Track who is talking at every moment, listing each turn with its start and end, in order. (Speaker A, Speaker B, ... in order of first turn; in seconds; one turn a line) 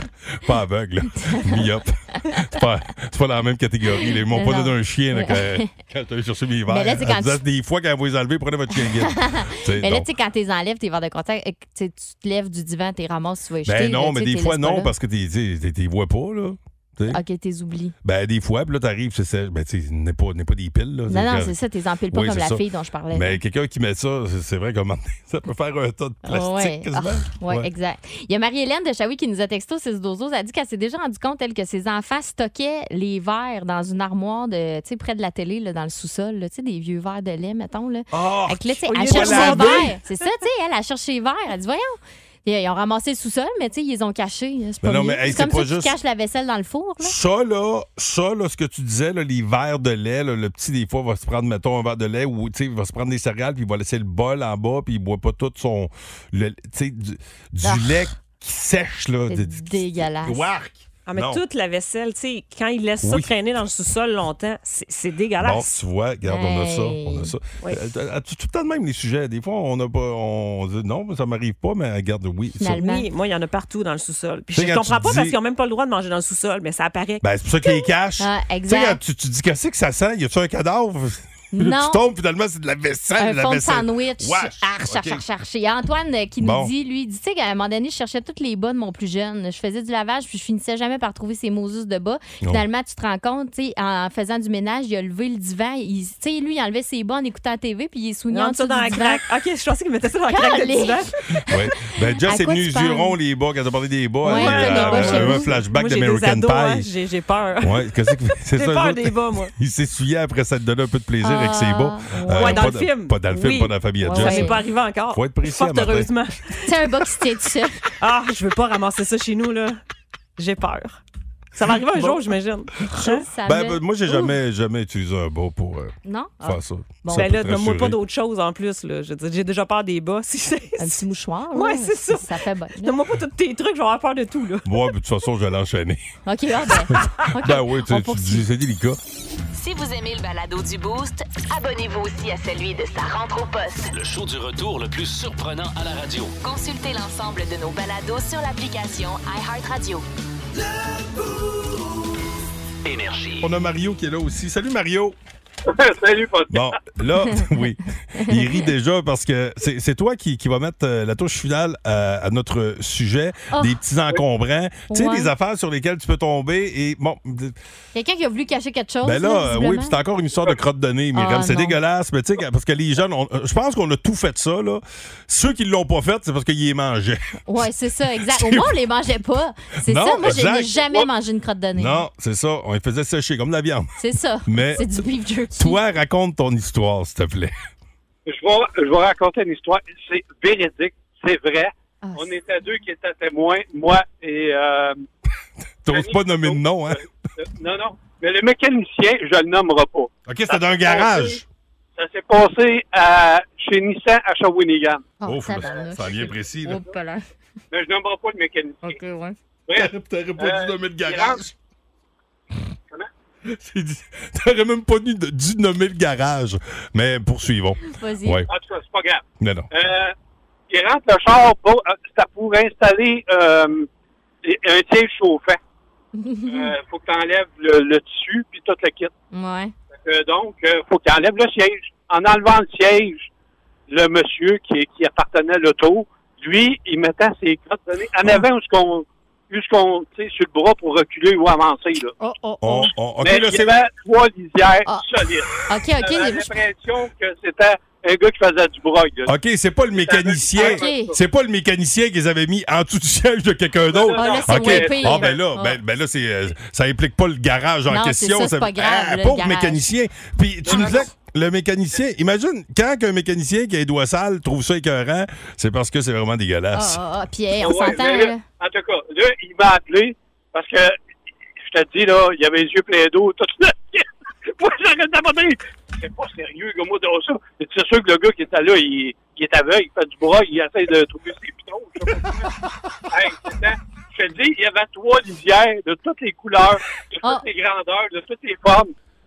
Speaker A: 0.2-10.1
Speaker B: 1.2-1.6
Speaker B: 4.0-5.7
Speaker B: 6.7-7.4
Speaker B: 8.8-14.9
Speaker A: 13.6-17.2
Speaker B: 17.1-17.9
Speaker A: 18.0-21.6
Speaker B: 21.1-23.4
Speaker A: 22.1-27.7
Speaker B: 26.2-47.1
Speaker A: 38.1-39.9
Speaker C: 38.9-40.0
Speaker A: 44.8-45.9
Speaker A: 47.0-61.4
Speaker B: 57.6-58.1
Speaker B: 59.3-60.4
Speaker C: 61.1-65.8
Speaker A: 63.0-63.3
Speaker A: 65.4-72.8
Speaker B: 66.2-67.3
Speaker B: 72.6-73.0
Speaker C: 72.7-77.2
Speaker A: 74.5-75.3
Speaker A: 77.2-85.2
Speaker B: 77.7-79.0
Speaker B: 81.5-82.0
Speaker B: 83.2-99.2
Speaker A: 86.4-86.7
Speaker C: 98.3-101.1
Speaker B: 100.3-101.0
Speaker A: 101.5-106.9
Speaker B: 102.2-103.2
Speaker B: 104.2-105.5
Speaker C: 104.3-109.5
Speaker A: 107.6-114.6
Speaker B: 111.2-112.6
Speaker C: 112.3-116.6
Speaker B: 114.1-114.5
Speaker A: 115.1-116.1
Speaker B: 116.6-117.8
Speaker C: 118.0-119.8
Speaker C: 120.4-121.0
Speaker C: 121.5-123.2
Speaker B: 122.9-124.3
Speaker A: 123.4-128.0
Speaker B: 126.0-127.3
Speaker C: 127.1-131.0
Speaker B: 130.8-132.9
Speaker C: 131.5-134.7
Speaker A: 134.6-136.0
Speaker B: 136.2-138.4
Speaker A: 136.9-139.0
Speaker D: 139.5-143.9
Speaker E: 143.9-146.3
Speaker D: 146.4-150.0
Speaker E: 152.8-153.4
Speaker A: 153.4-155.2
Speaker F: 155.7-156.8
Speaker A: 156.5-167.6
Speaker B: 157.3-157.6
Speaker B: 158.2-158.7
Speaker B: 164.9-165.3
Speaker B: 167.9-170.0
Speaker A: 169.0-178.8
Speaker B: 171.1-171.7
Speaker B: 177.5-182.0
Speaker A: 179.8-180.8
Speaker A: 181.7-183.9
Speaker B: 184.0-185.8
Speaker A: 184.4-187.5
Speaker F: 188.3-195.0
Speaker B: 192.0-192.3
Speaker A: 195.8-197.0
Speaker F: 195.9-201.4
Speaker A: 200.2-201.4
Speaker F: 201.9-205.0
Speaker B: 205.2-207.2
Speaker A: 205.2-206.8
Speaker F: 207.7-209.0
Speaker B: 208.8-209.3
Speaker F: 209.7-211.4
Speaker A: 209.7-211.5
Speaker A: 213.5-218.5
Speaker B: 217.8-218.4
Speaker F: 218.5-220.1
Speaker A: 219.4-219.7
Speaker F: 220.7-223.9
Speaker F: 224.4-225.6
Speaker B: 226.1-226.7
Speaker F: 226.5-229.1
Speaker B: 229.3-229.7
Speaker F: 229.9-233.3
Speaker F: 233.9-242.1
Speaker B: 242.2-242.9
Speaker A: 242.6-243.8
Speaker F: 243.2-249.3
Speaker B: 245.6-246.5
Speaker A: 249.2-267.0
Speaker F: 249.9-251.1
Speaker B: 250.5-251.1
Speaker F: 253.9-255.4
Speaker B: 254.2-255.8
Speaker B: 257.9-259.8
Speaker F: 260.7-261.1
Speaker B: 260.7-261.0
Speaker B: 266.7-268.4
Speaker F: 267.6-270.9
Speaker F: 271.6-282.5
Speaker F: 283.1-288.9